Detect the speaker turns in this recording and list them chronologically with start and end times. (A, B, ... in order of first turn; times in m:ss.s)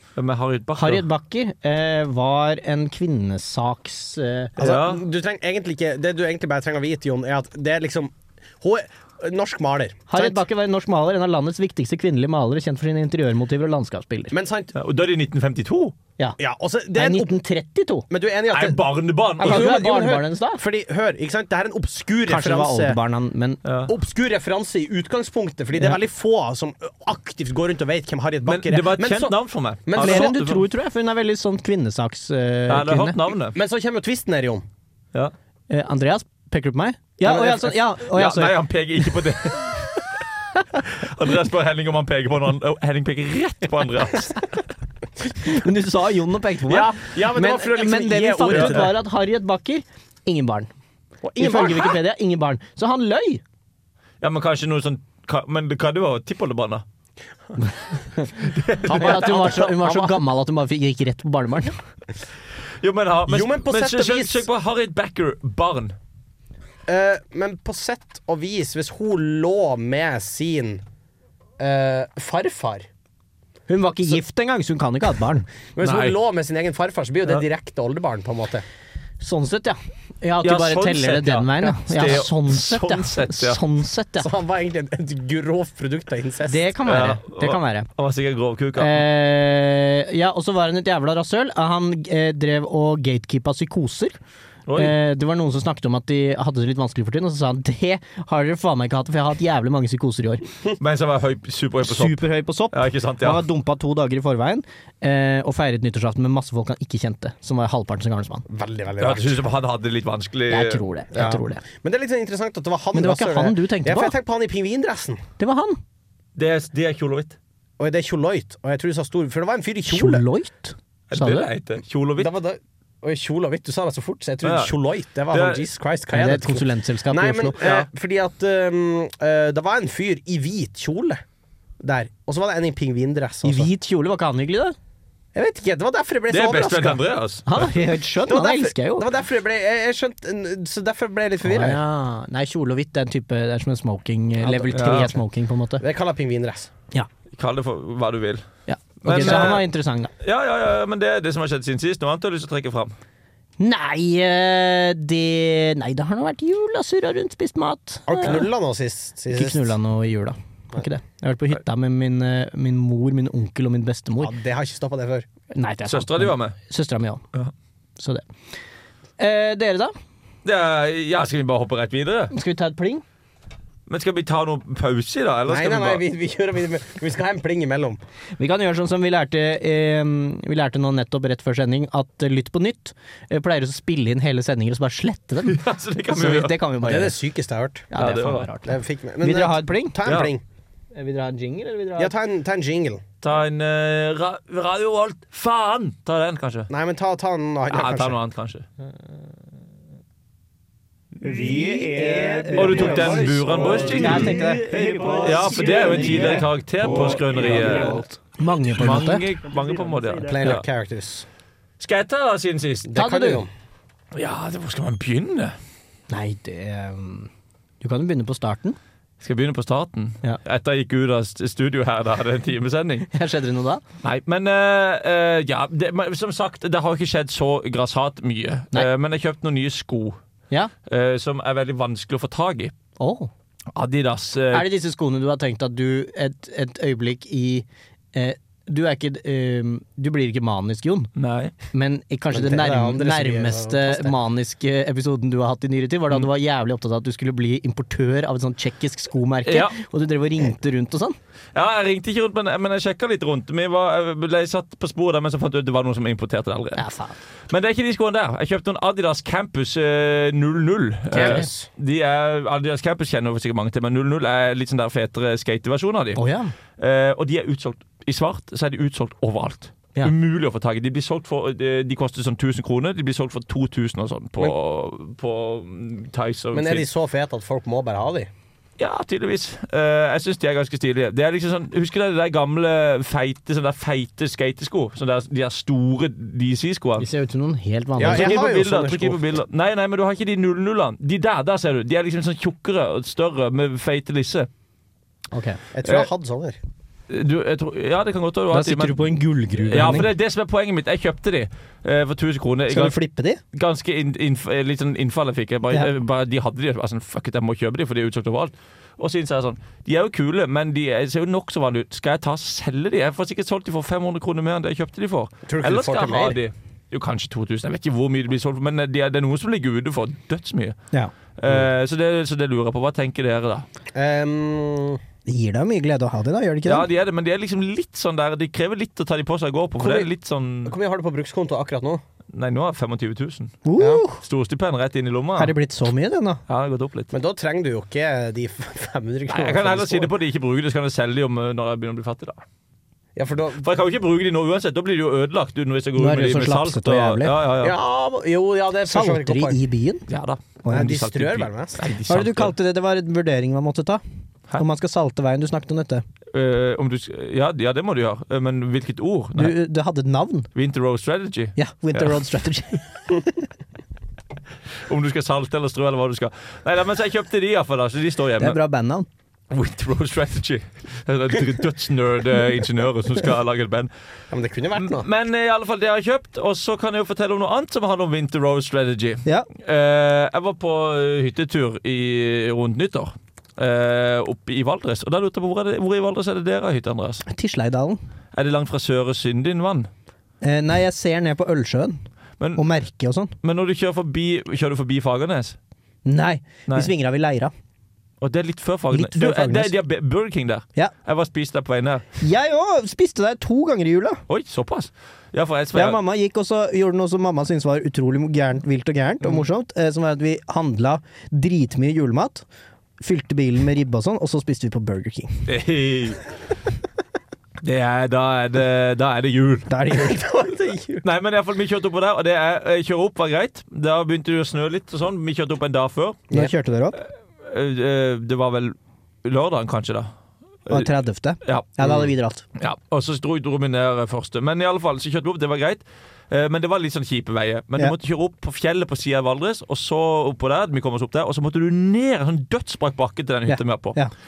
0:00.2-0:01.1 A
0:00.8-0:04.5 B
0:04.6-0:10.4 C
0:04.6-0:05.0 A
0:10.1-0:14.3 B
0:14.3-0:14.7 C
0:14.7-0:16.0 A
0:16.4-0:17.3 C
0:17.0-0:18.1 B
0:18.1-0:23.0 C
0:18.5-0:19.7 A
0:19.4-0:20.6 B
0:22.3-0:23.6 B
0:23.6-0:23.9 A
0:23.9-0:30.4 C
0:28.4-0:30.6 A
0:30.0-0:33.2 B
0:32.7-0:33.6 A
0:33.5-0:34.6 C
0:35.7-0:38.6 B
0:37.2-0:37.7 C
0:38.1-0:40.0 A
0:40.9-0:44.5 A
0:45.4-0:50.7 B
0:46.7-0:49.0 C
0:48.5-0:48.8 A
0:51.2-0:52.0 C
0:51.4-0:53.4 B
0:54.2-0:56.8 A
0:58.6-0:59.3 A
0:58.8-1:00.2 C
0:58.9-1:01.7 B
1:02.8-1:06.0 A
1:03.3-1:04.5 C
1:06.9-1:10.8 C
1:11.6-1:12.9 C
1:13.7-1:15.5 B
1:15.8-1:18.6 C
1:15.8-1:16.2 A
1:19.2-1:24.3 B
1:20.4-1:23.6 A
1:24.2-1:26.7 C
1:26.5-1:27.9 B
1:26.9-1:29.1 A
1:28.8-1:34.2 B
1:34.7-1:35.0 A
1:34.8-1:40.4 B
1:40.8-1:43.4 A
1:41.8-1:48.4 B
1:48.5-1:49.5 C
1:49.0-1:50.8 A
1:50.5-1:51.6 B
1:51.1-1:55.2 C
1:52.9-1:54.1 B
1:55.4-1:55.8 B
1:56.4-1:57.4 A
1:57.8-2:00.2 C
1:59.9-2:01.5 B
2:01.1-2:02.3 A
2:02.2-2:11.2 C
2:04.4-2:04.7 A
2:05.3-2:05.6 A
2:06.1-2:07.6 B
2:07.6-2:07.9 A
2:11.8-2:13.7 C
2:13.4-2:14.8 B
2:15.3-2:17.0 C
2:16.3-2:17.7 A
2:17.5-2:19.1 B
2:18.3-2:21.8 C
2:21.4-2:25.8 B
2:24.4-2:25.2 C
2:24.7-2:25.1 A
2:25.8-2:26.7 C
2:27.3-2:28.4 A
2:28.7-2:30.1 B
2:29.0-2:29.7 A
2:29.2-2:29.5 C
2:30.2-2:33.0 A
2:33.6-2:38.4 B
2:38.1-2:39.7 C
2:39.3-2:44.3 B
2:44.2-2:45.3 C
2:45.5-2:47.2 B
2:45.9-2:46.6 A
2:48.0-2:48.2 B
2:49.2-2:49.9 B
2:50.4-2:52.3 A
2:52.3-2:53.0 B
2:53.9-2:56.0 A
2:55.5-2:58.0 C
2:58.4-3:07.2 B
3:05.4-3:06.6 A
3:06.8-3:07.9 C
3:07.9-3:10.0 B
3:08.0-3:08.5 A
3:08.6-3:10.4 C
3:10.0-3:10.3 A
3:10.9-3:12.1 B
3:12.0-3:13.0 C
3:13.2-3:16.7 A
3:16.7-3:18.2 C
3:17.7-3:18.7 A
3:21.3-3:26.5 B
3:22.6-3:28.0 A
3:27.5-3:29.3 B
3:28.7-3:30.6 A
3:30.2-3:31.3 C
3:31.8-3:32.9 A
3:32.8-3:33.5 C
3:33.0-3:33.5 B
3:34.1-3:35.6 A
3:36.1-3:37.3 B
3:37.8-3:38.8 B
3:39.2-3:43.1 A
3:43.1-3:43.8 B
3:44.0-3:50.2 A
3:50.9-3:52.7 A
3:53.0-3:53.3 B
3:53.7-3:54.7 A
3:54.5-4:01.1 B
4:01.2-4:01.5 A
4:01.7-4:11.2 B
4:02.3-4:04.2 C
4:09.4-4:09.8 A
4:11.6-4:16.8 A
4:16.8-4:17.2 B
4:17.5-4:26.2 A
4:21.1-4:21.7 C
4:21.1-4:21.5 B
4:26.2-4:26.5 B
4:26.8-4:36.8 A
4:36.5-4:38.3 C
4:38.8-4:47.1 A
4:47.0-4:48.4 B
4:48.0-4:49.2 C
4:48.0-4:54.5 A
4:55.3-4:55.6 B
4:55.7-4:56.6 C
4:57.1-4:59.1 A
4:58.5-5:00.1 B
4:59.6-5:03.0 A
5:02.7-5:03.4 B
5:03.5-5:20.8 A
5:15.5-5:16.4 C
5:21.4-5:23.7 A
5:23.9-5:25.0 C
5:25.3-5:26.8 B
5:26.7-5:30.8 A
5:29.8-5:30.1 C
5:30.6-5:32.0 C
5:32.3-5:33.6 A
5:33.7-5:34.2 B
5:33.8-5:34.0 C
5:34.2-5:35.5 A
5:35.4-5:36.4 B
5:36.5-5:37.1 A
5:37.1-5:40.1 C
5:39.3-5:42.4 A
5:43.2-5:43.7 C
5:43.6-5:47.8 A
5:46.0-5:47.3 B
5:47.6-5:49.6 C
5:48.9-5:50.0 B
5:50.1-5:52.5 A
5:50.6-5:50.9 B
5:50.7-5:51.8 C
5:52.1-5:54.0 B
5:54.6-5:56.0 B
5:56.3-5:59.6 A
5:59.4-6:00.5 B
6:00.6-6:02.1 A
6:01.6-6:03.4 B
6:04.9-6:08.6 A
6:08.4-6:09.1 B
6:09.5-6:13.9 A
6:14.3-6:15.1 C
6:14.7-6:27.2 A
6:27.3-6:28.0 B
6:28.3-6:29.9 A
6:30.4-6:32.0 B
6:32.6-6:33.3 B
6:33.4-6:35.6 A
6:36.1-6:37.5 B
6:38.2-6:42.0 A
6:38.9-6:39.8 B
6:42.2-6:44.2 B
6:44.3-6:46.0 A
6:45.8-6:52.5 B
6:53.0-6:55.5 B
6:55.5-6:56.3 A
6:57.6-6:59.7 A
6:59.7-7:00.2 B
6:59.9-7:01.0 C
7:01.0-7:06.4 A
7:06.3-7:07.0 B
7:07.0-7:10.1 A
7:10.7-7:12.4 B
7:11.4-7:11.7 A
7:12.6-7:24.0 A
7:23.5-7:24.1 B